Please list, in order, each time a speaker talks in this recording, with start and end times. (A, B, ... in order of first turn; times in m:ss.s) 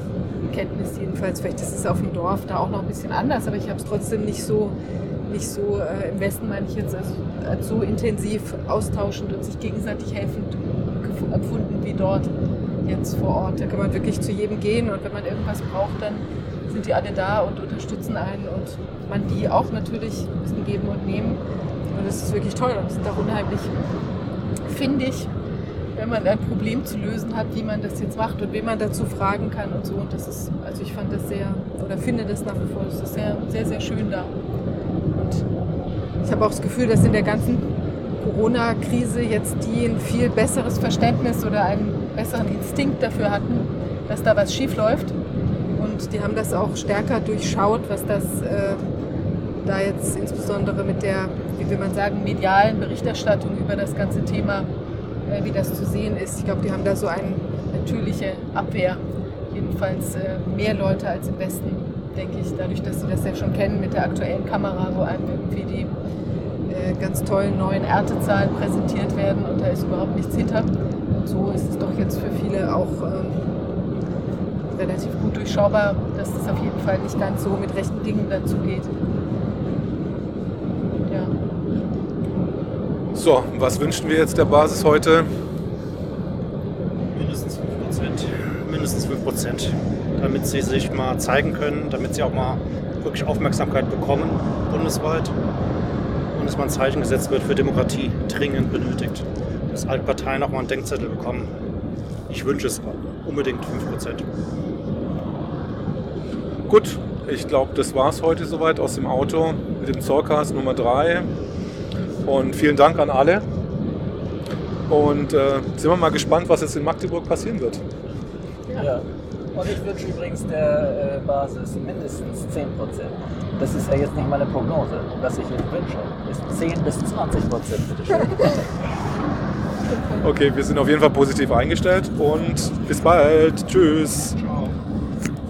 0:00.5-0:12.3 A
0:12.8-0:21.4 A
0:21.9-0:23.7 A
0:24.7-0:25.3 A
0:26.0-0:34.3 A
0:35.1-0:35.4 A
0:36.2-0:45.1 A
0:45.8-0:48.8 A
0:49.6-0:54.7 A
0:55.3-1:05.9 A
1:06.7-1:13.5 A
1:14.7-1:18.9 A
1:21.1-1:21.3 A
1:23.1-1:25.3 B
1:27.1-1:35.4 C
1:36.3-1:41.5 C
1:42.3-1:44.2 C
1:46.7-1:51.3 B
1:52.2-1:53.4 B
1:54.9-1:57.8 B
1:58.8-2:08.6 D
2:10.2-2:14.7 B